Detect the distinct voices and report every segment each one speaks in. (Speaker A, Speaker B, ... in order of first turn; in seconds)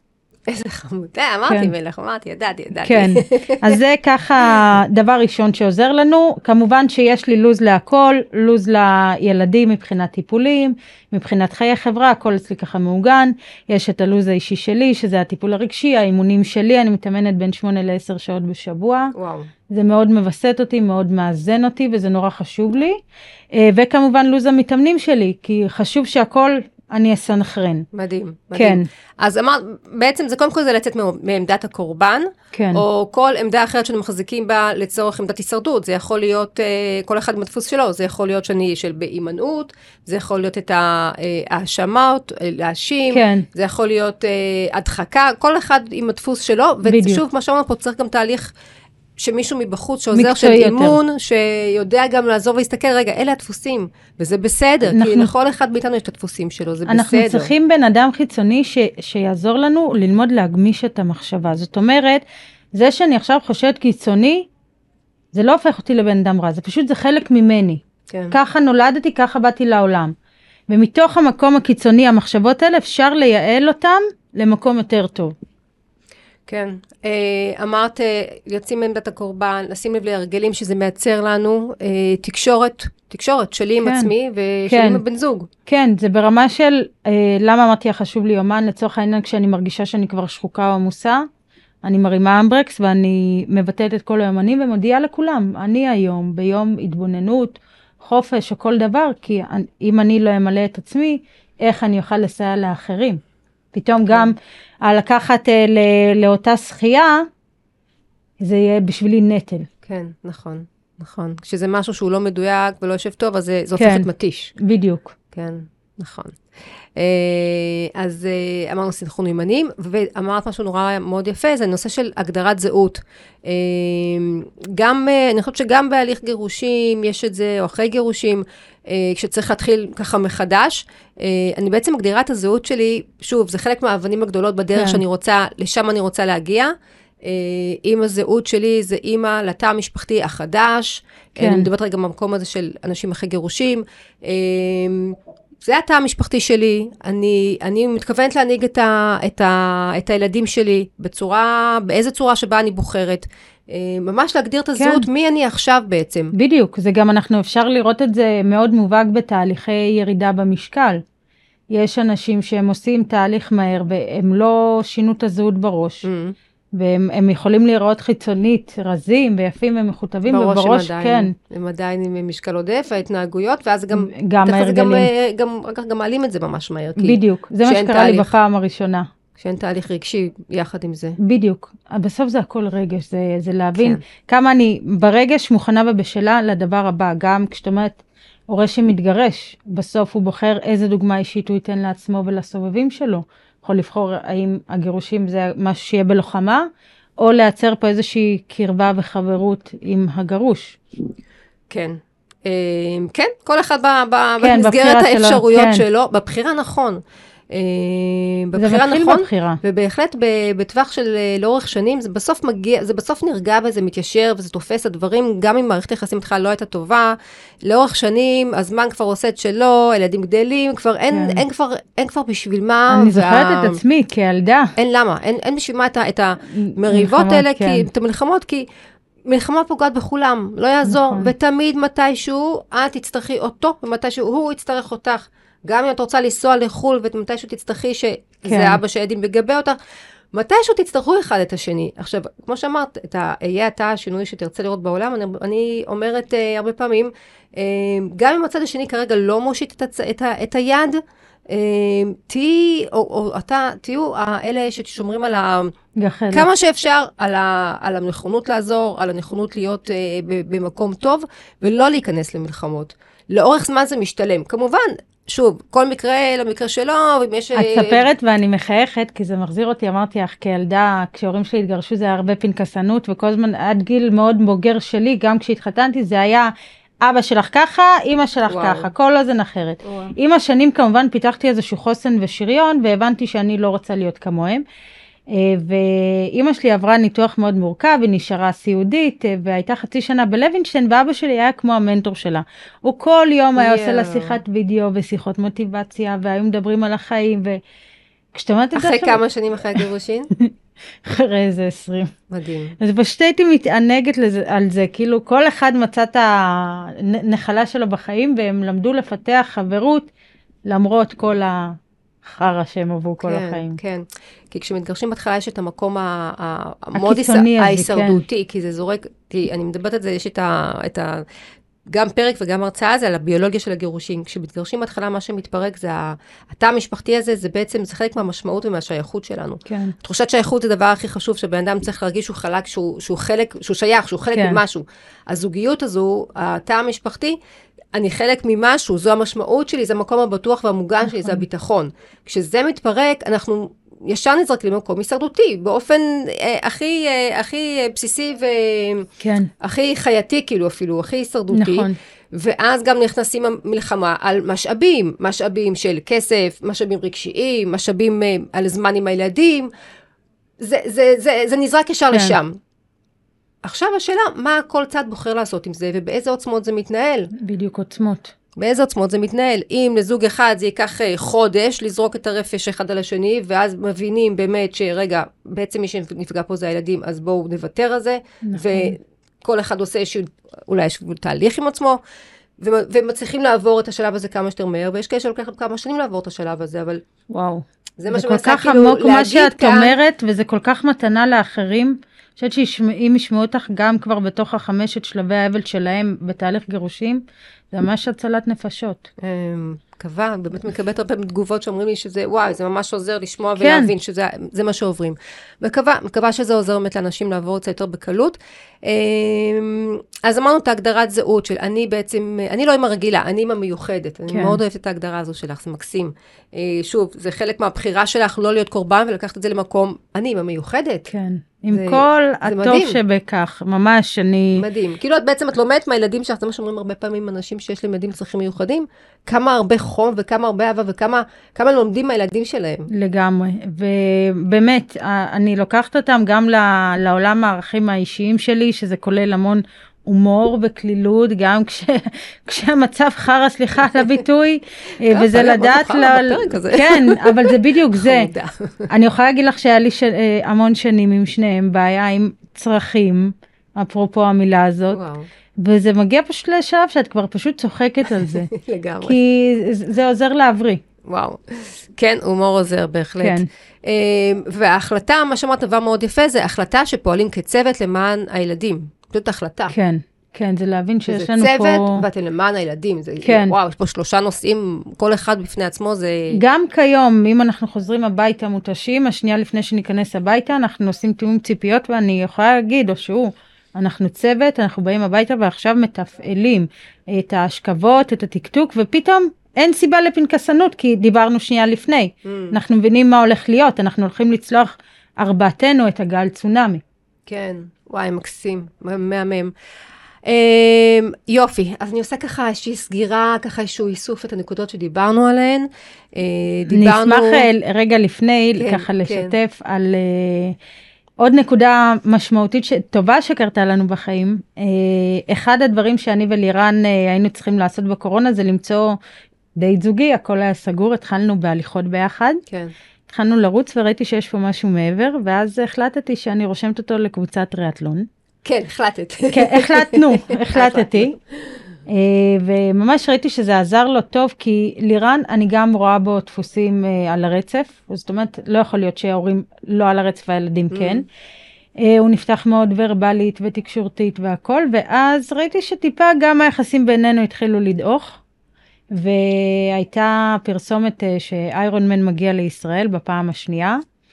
Speaker A: 0.5-3.8, 19.1-19.5, 27.9-48.5, 49.2-57.5, 76.5-85.5, 109.8-114.5, 115.3-116.4, 117.0-136.7, 137.2-156.3, 166.0-166.3, 170.3-178.3, 179.4-181.2, 183.8-184.0, 201.7-223.8, 224.8-228.7, 229.3-239.8, 240.3-255.7, 256.3-268.1, 278.5-278.9, 279.8-280.1, 293.6-294.4, 298.7-300.3, 302.3-302.8, 313.2-321.2, 321.9-337.4, 337.9-349.1, 349.6-359.7, 360.6-362.6, 363.6-367.3, 368.6-382.0, 382.6-387.0, 388.0-389.9, 399.2-421.1, 421.7-423.0, 424.6-432.9, 445.1-448.9, 454.9-455.3, 458.2-459.2, 461.0-469.7, 471.1-476.4, 492.2-492.5, 497.3-499.5, 500.2-507.5, 508.6-509.3, 522.5-522.7, 528.4-531.6, 540.7-541.0
Speaker B: 2.8-19.1, 19.7-23.0, 23.5-27.9, 28.6-28.9, 32.5-32.8, 43.1-43.5, 46.9-47.2, 50.1-51.0, 54.9-55.3, 56.9-62.2, 62.7-64.5, 65.3-70.1, 70.7-75.3, 83.8-84.1, 84.7-85.0, 85.7-91.3, 91.8-103.2, 103.7-107.3, 108.4-109.7, 113.8-114.1, 114.6-115.1, 134.7-135.0, 141.4-141.7, 154.8-155.1, 156.3-161.0, 161.7-166.1, 166.8-171.3, 173.9-175.1, 177.0-179.1, 181.2-196.7, 197.2-200.8, 204.4-205.8, 208.6-209.6, 221.1-221.4, 222.9-224.7, 226.5-227.9, 230.8-231.3, 238.5-238.8, 256.0-256.5, 267.5-276.5, 277.0-284.6, 285.3-297.6, 298.3-299.2, 301.0-302.1, 302.8-310.1, 310.7-313.8, 316.9-318.2, 329.6-329.9, 334.3-334.6, 341.0-341.4, 349.2-349.5, 351.5-351.9, 367.3-368.3, 378.4-378.9, 387.3-399.1, 403.6-403.9, 414.3-414.6, 421.1-424.6, 432.9-448.3, 448.9-455.0, 455.6-458.5, 459.0-460.8, 463.2-463.5, 469.7-472.0, 473.2-473.5, 476.3-496.8, 506.7-510.6, 511.2-519.0, 519.5-522.4, 523.1-528.1, 529.3-531.1, 531.9-541.0, 541.8-548.2, 548.9-553.8